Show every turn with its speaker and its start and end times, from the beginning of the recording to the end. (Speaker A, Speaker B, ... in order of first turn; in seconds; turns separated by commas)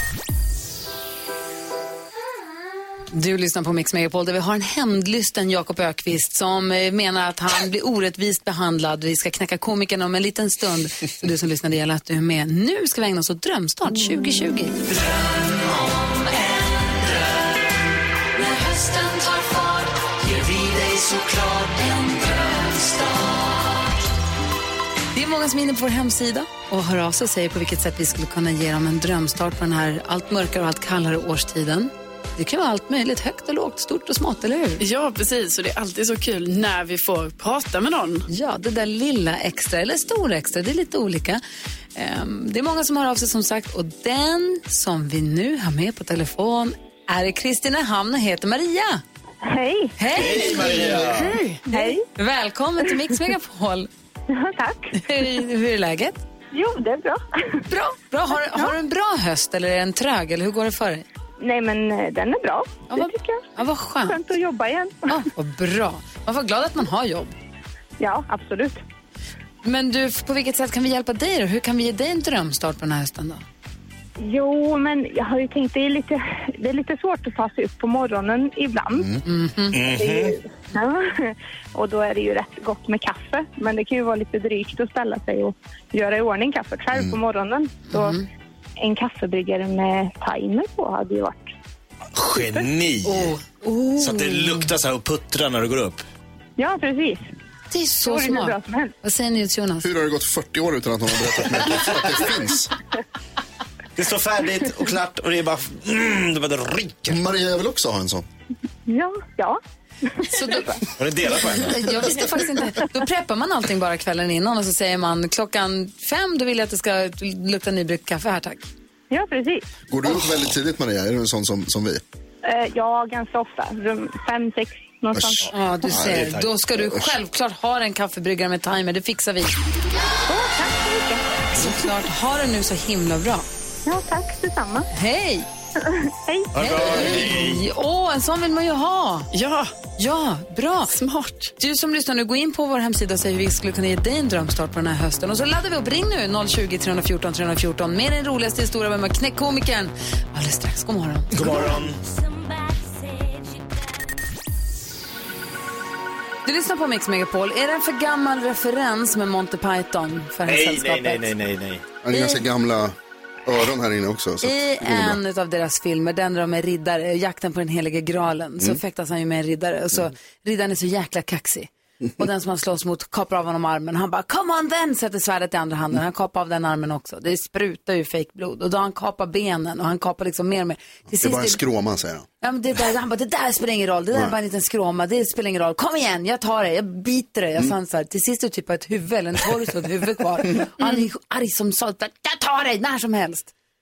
Speaker A: 3.1-14.9, Speaker A: 18.4-19.7, Speaker A: 25.1-34.8, Speaker B: 34.8-38.2, Speaker A: 38.3-41.4, Speaker A: 41.9-49.0, Speaker C: 49.4-50.0, Speaker A: 50.0-53.9, Speaker D: 50.1-51.4, Speaker C: 51.7-52.0, Speaker C: 54.3-55.0, Speaker A: 55.0-56.2, Speaker C: 56.5-57.6, Speaker A: 57.7-61.0, Speaker C: 61.4-63.4, Speaker A: 62.9-64.2, Speaker C: 64.0-65.2, Speaker A: 65.1-67.3, Speaker C: 68.0-68.8, Speaker A: 69.6-73.4, Speaker C: 74.2-79.2, Speaker A: 79.2-79.8, Speaker D: 79.7-80.3, Speaker C: 79.8-88.2, Speaker E: 86.9-87.2, Speaker A: 87.9-88.2, Speaker C: 88.8-91.5, Speaker D: 92.2-93.3, Speaker C: 92.4-92.6, Speaker A: 93.0-94.7, Speaker D: 94.0-96.0, Speaker C: 96.6-97.2, Speaker A: 97.7-99.9, Speaker C: 98.0-98.9, Speaker E: 99.8-102.7, Speaker D: 104.0-107.2, Speaker E: 107.1-108.2, Speaker C: 108.8-109.6, Speaker C: 110.1-110.8, Speaker A: 110.3-110.8, Speaker D: 111.0-112.2, Speaker A: 111.6-118.7, Speaker C: 119.1-119.7, Speaker E: 119.9-122.0, Speaker C: 122.4-125.5, Speaker E: 125.1-127.1, Speaker D: 125.4-126.5, Speaker A: 125.5-129.6, Speaker C: 130.3-131.4, Speaker A: 131.5-133.5, Speaker C: 133.8-134.9, Speaker A: 134.9-135.4, Speaker C: 135.8-136.5, Speaker D: 136.5-137.6, Speaker A: 136.6-139.3, Speaker B: 139.3-139.7, Speaker A: 140.0-140.9, Speaker B: 140.9-141.5, Speaker A: 141.6-151.7, Speaker D: 151.3-152.0, Speaker A: 156.4-161.3, Speaker D: 160.4-161.8, Speaker E: 162.0-165.2, Speaker A: 162.1-162.4, Speaker A: 164.4-181.6, Speaker E: 181.1-182.2, Speaker A: 182.4-193.5